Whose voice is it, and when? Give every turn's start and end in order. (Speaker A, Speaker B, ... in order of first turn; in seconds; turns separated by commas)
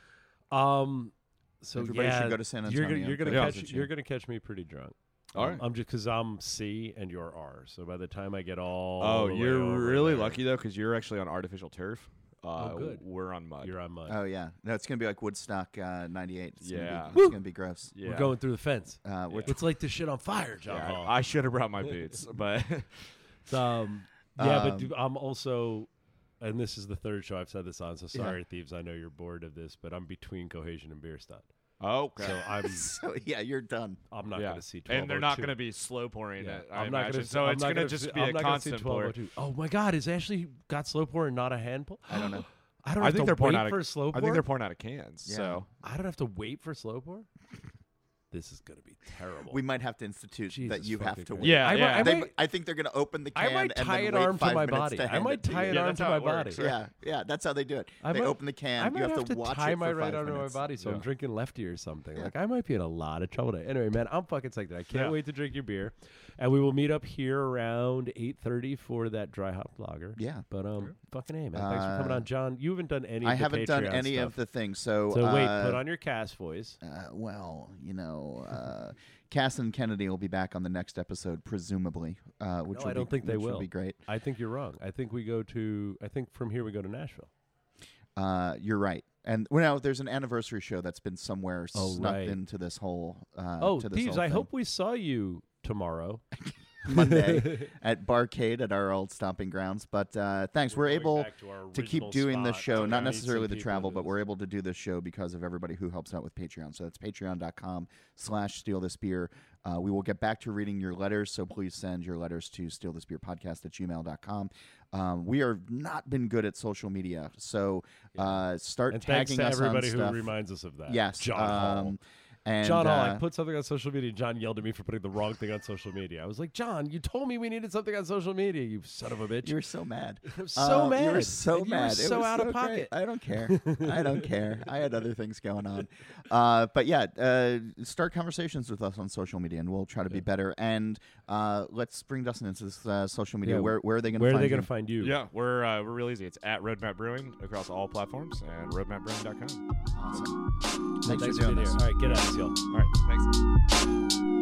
Speaker A: 0.5-10.4, Speaker B: 1.8-3.9, Speaker C: 3.3-3.5, Speaker B: 5.3-5.6, Speaker C: 5.3-5.6, Speaker C: 9.0-13.8, Speaker A: 12.6-13.0, Speaker A: 13.6-14.2, Speaker B: 14.1-17.9, Speaker C: 16.6-17.2, Speaker A: 17.1-17.4, Speaker C: 17.9-18.4, Speaker A: 18.0-21.1, Speaker B: 19.0-19.6, Speaker C: 19.3-19.6, Speaker C: 20.7-23.2, Speaker A: 23.5-25.9, Speaker B: 24.4-24.9, Speaker A: 26.4-31.5, Speaker B: 28.1-28.4, Speaker C: 31.8-32.4, Speaker A: 32.2-32.9, Speaker B: 32.5-34.0, Speaker A: 34.1-35.6, Speaker C: 34.4-39.1, Speaker A: 36.4-44.5, Speaker B: 42.1-42.5, Speaker C: 43.0-45.7, Speaker B: 45.3-45.6, Speaker A: 45.8-47.3, Speaker A: 48.3-49.6, Speaker B: 49.5-55.9, Speaker A: 50.5-52.3, Speaker C: 51.4-52.2, Speaker A: 53.4-56.7, Speaker C: 55.7-56.7, Speaker B: 56.6-60.6, Speaker A: 58.0-74.4, Speaker C: 60.8-61.0, Speaker B: 70.2-70.5, Speaker B: 71.5-72.2, Speaker B: 73.2-75.8, Speaker A: 75.1-76.8, Speaker B: 76.8-84.0, Speaker A: 82.7-87.3, Speaker B: 88.2-94.5, Speaker A: 91.7-92.4, Speaker A: 93.6-96.2, Speaker A: 96.8-97.7, Speaker B: 96.8-120.3, Speaker A: 100.7-104.1, Speaker C: 102.7-103.0, Speaker A: 118.2-122.0, Speaker B: 120.9-123.2, Speaker A: 122.6-129.6, Speaker B: 129.4-144.7, Speaker A: 130.3-134.4, Speaker A: 143.4-145.2, Speaker C: 145.0-149.6, Speaker B: 149.9-150.4, Speaker B: 151.0-151.8, Speaker A: 151.0-152.6, Speaker C: 152.1-153.4